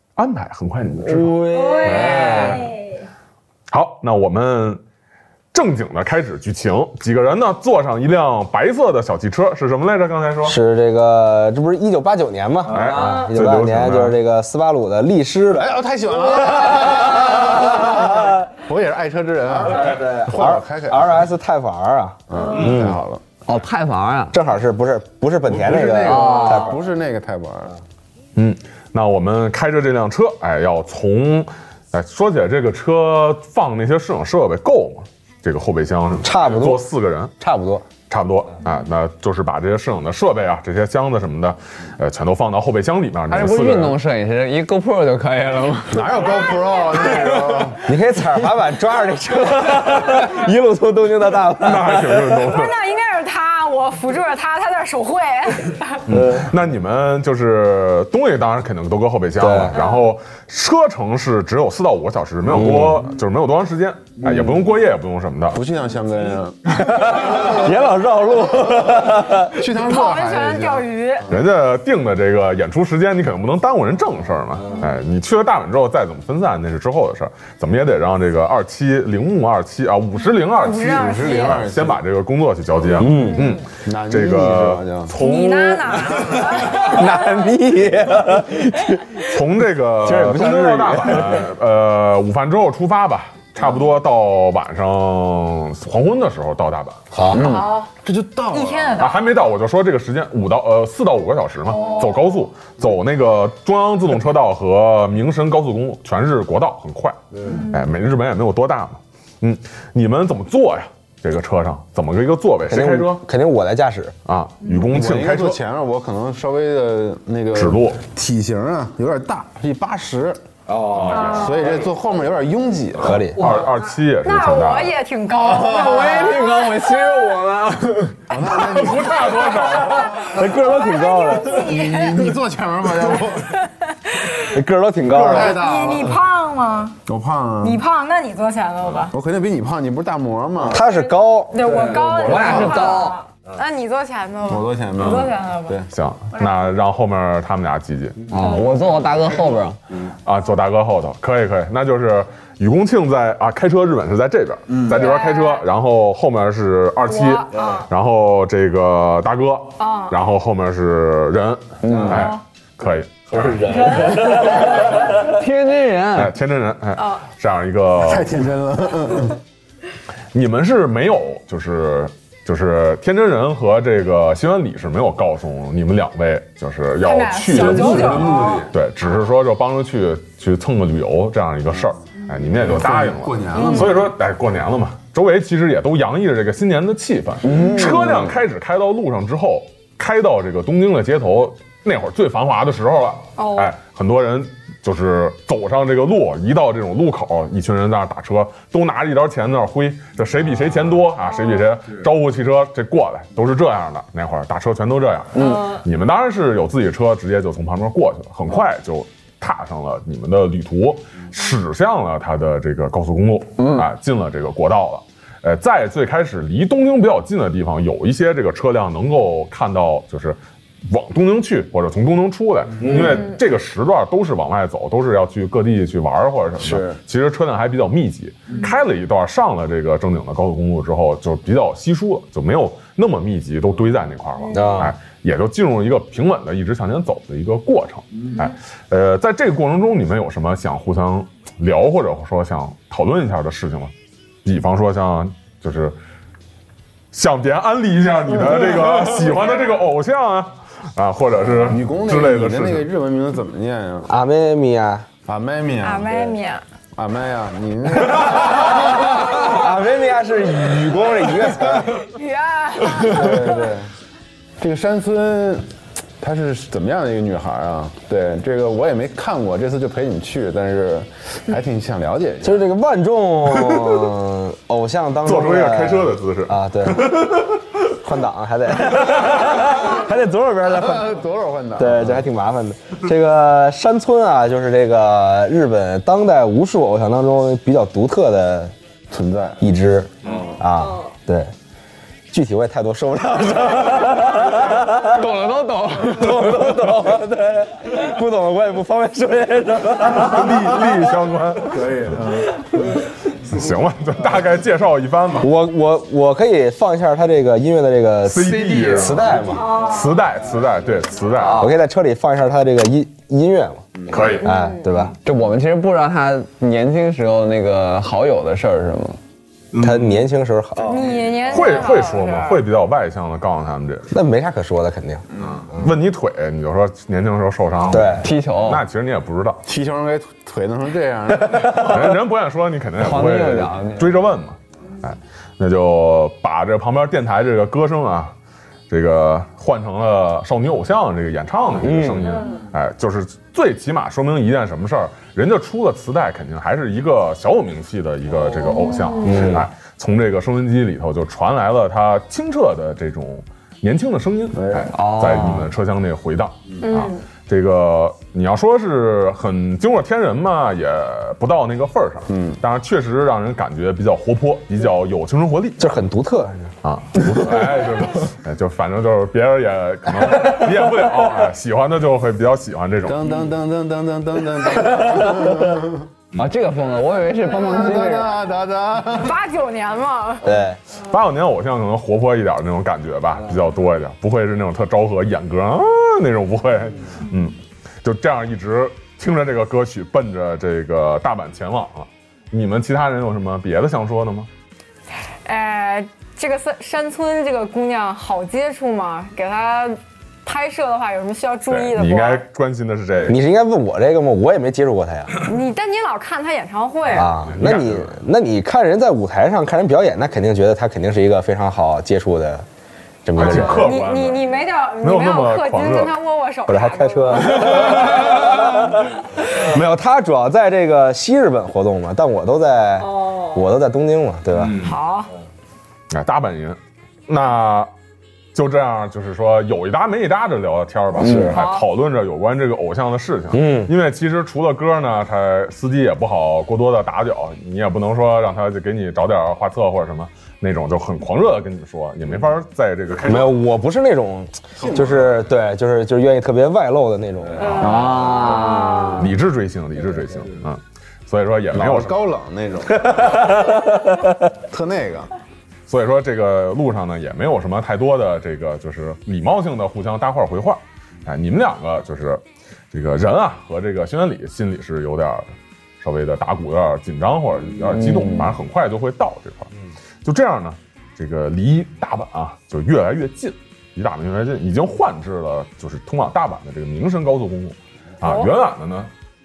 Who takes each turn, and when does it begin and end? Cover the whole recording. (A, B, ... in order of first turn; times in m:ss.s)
0:00.2-0:01.4 A
0:01.0-0:02.7 B
0:01.5-0:02.7 C
0:01.8-0:02.7 D
0:02.1-0:02.3 A
0:03.7-0:04.8 A
0:05.5-0:10.6 A
0:10.4-0:15.8 B
0:12.7-0:14.2 A
0:15.6-0:21.2 D
0:19.8-0:23.0 B
0:22.3-0:23.2 D
0:23.5-0:24.4 E
0:24.3-0:26.8 B
0:25.5-0:27.8 D
0:26.0-0:26.8 E
0:28.4-0:37.3 A
0:36.2-0:36.8 B
0:37.4-0:37.8 B
0:38.1-0:44.0 A
0:43.3-0:46.1 E
0:45.9-0:47.9 D
0:47.8-0:52.4 B
0:51.6-0:52.8 A
0:52.3-0:56.0 C
0:56.1-1:05.6 A
0:56.1-0:56.5 B
0:59.4-0:59.8 B
0:59.7-1:00.1 C
1:02.5-1:03.1 B
1:05.5-1:07.7 D
1:06.7-1:09.6 B
1:09.5-1:11.4 D
1:09.7-1:11.3 C
1:11.3-1:26.3 A
1:20.4-1:21.6 C
1:20.7-1:22.0 D
1:22.9-1:23.6 B
1:23.8-1:25.1 D
1:25.2-1:27.2 C
1:26.5-1:29.4 B
1:29.3-1:37.1 A
1:30.0-1:31.5 B
1:37.1-1:37.7 B
1:37.3-1:37.9 C
1:37.3-1:39.1 D
1:38.5-1:39.2 C
1:39.0-1:53.2 A
1:41.7-1:42.2 C
1:52.7-1:54.1 B
1:54.2-1:55.6 A
1:54.8-2:00.4 D
1:57.6-1:58.0 A
2:00.8-2:01.5 A
2:01.1-2:01.7 C
2:01.2-2:03.3 D
2:03.0-2:03.5 B
2:03.3-2:04.9 A
2:04.2-2:07.3 C
2:05.5-2:06.1 D
2:05.6-2:08.1 B
2:05.8-2:08.0 E
2:08.3-2:09.7 D
2:08.6-2:10.2 A
2:09.6-2:12.2 C
2:10.1-2:11.7 B
2:11.5-2:13.6 D
2:13.6-2:14.4 C
2:14.4-2:15.6 B
2:15.1-2:16.2 D
2:15.3-2:17.0 C
2:17.1-2:17.8 D
2:17.6-2:19.1 C
2:19.1-2:20.8 D
2:20.7-2:21.7 B
2:20.7-2:25.8 C
2:21.6-2:23.1 D
2:22.2-2:23.2 E
2:24.5-2:25.9 D
2:25.9-2:28.3 A
2:28.3-2:29.8 E
2:28.3-2:28.8 C
2:30.2-2:44.1 A
2:34.8-2:35.6 C
2:37.1-2:37.9 C
2:39.8-2:40.1 C
2:41.8-2:42.3 E
2:43.4-2:44.3 B
2:43.6-2:44.7 C
2:44.4-2:46.3 E
2:46.1-2:48.3 A
2:48.0-2:49.4 D
2:50.3-4:03.9 A
2:57.0-2:58.7 C
2:57.5-2:58.7 D
3:02.5-3:04.1 D
3:03.6-3:04.1 C
3:07.4-3:08.2 D
3:13.4-3:13.7 C
3:25.3-3:25.7 E
3:33.6-3:33.8 E
3:42.8-3:43.3 C
3:46.6-3:46.9 B
3:54.5-3:54.9 B
4:04.4-4:06.0 A
4:07.1-4:12.9 A
4:11.6-4:14.1 D
4:14.1-4:15.1 B
4:15.2-4:16.3 D
4:15.8-4:16.6 C
4:16.9-4:19.5 D
4:19.3-4:22.0 B
4:22.1-4:23.3 C
4:22.9-4:23.9 D
4:23.1-4:23.7 B
4:24.6-4:25.7 D
4:26.2-4:32.6 D
4:32.4-4:37.2 B
4:35.2-4:37.6 A
4:37.9-4:41.2 B
4:40.7-4:42.2 D
4:41.8-4:48.8 B
4:49.1-4:49.6 D
4:49.6-4:51.5 B
4:52.3-4:55.3 B
4:55.2-4:56.0 E
4:56.0-5:01.1 B
5:00.1-5:02.2 A
5:01.7-5:02.5 D
5:03.4-5:05.5 A
5:05.4-5:09.7 B
5:08.2-5:11.7 A
5:09.5-5:10.1 C
5:11.5-5:15.1 B
5:14.1-5:14.5 A
5:14.4-5:15.0 C
5:15.2-5:19.2 E
5:19.7-5:20.2 A
5:19.8-5:21.2 B
5:20.8-5:22.6 C
5:21.5-5:24.1 A
5:24.1-5:25.9 B
5:25.5-5:29.6 A
5:27.9-5:28.3 B
5:28.1-5:28.8 E
5:29.6-5:31.9 D
5:31.6-5:38.3 A
5:33.0-5:34.2 E
5:38.9-6:05.9 A
5:41.8-5:42.3 B
5:48.7-5:49.4 C
5:49.2-5:49.7 B
5:54.8-5:55.7 E
5:56.8-5:57.2 C
6:02.3-6:02.6 D
6:05.8-6:06.7 B
6:06.8-6:13.2 A
6:13.1-6:16.1 D
6:16.3-6:18.3 E
6:17.6-6:19.3 D
6:19.2-6:20.5 C
6:20.4-6:20.8 B
6:20.9-6:34.5 A
6:35.4-6:42.4 C
6:41.7-6:43.4 A
6:43.3-6:45.5 B
6:45.4-6:47.3 C
6:47.1-6:52.6 B
6:47.3-6:48.2 A
6:53.2-6:53.9 B
6:53.4-6:56.1 A
6:53.4-6:58.5 C
6:56.7-7:04.9 B
7:03.0-7:03.6 C
7:04.8-7:05.3 C
7:06.1-7:07.9 A
7:08.5-7:23.6 A
7:11.2-7:11.6 B
7:11.4-7:11.8 C
7:13.5-7:13.9 B
7:23.3-7:28.0 B
7:27.6-7:29.2 C
7:27.8-7:29.3 E
7:29.2-7:32.2 A
7:31.7-7:33.3 D
7:34.7-7:35.3 D
7:35.9-7:45.5 A
7:46.0-7:49.7 A
7:48.1-7:48.5 E
7:50.2-7:59.1 A
7:58.2-7:58.5 C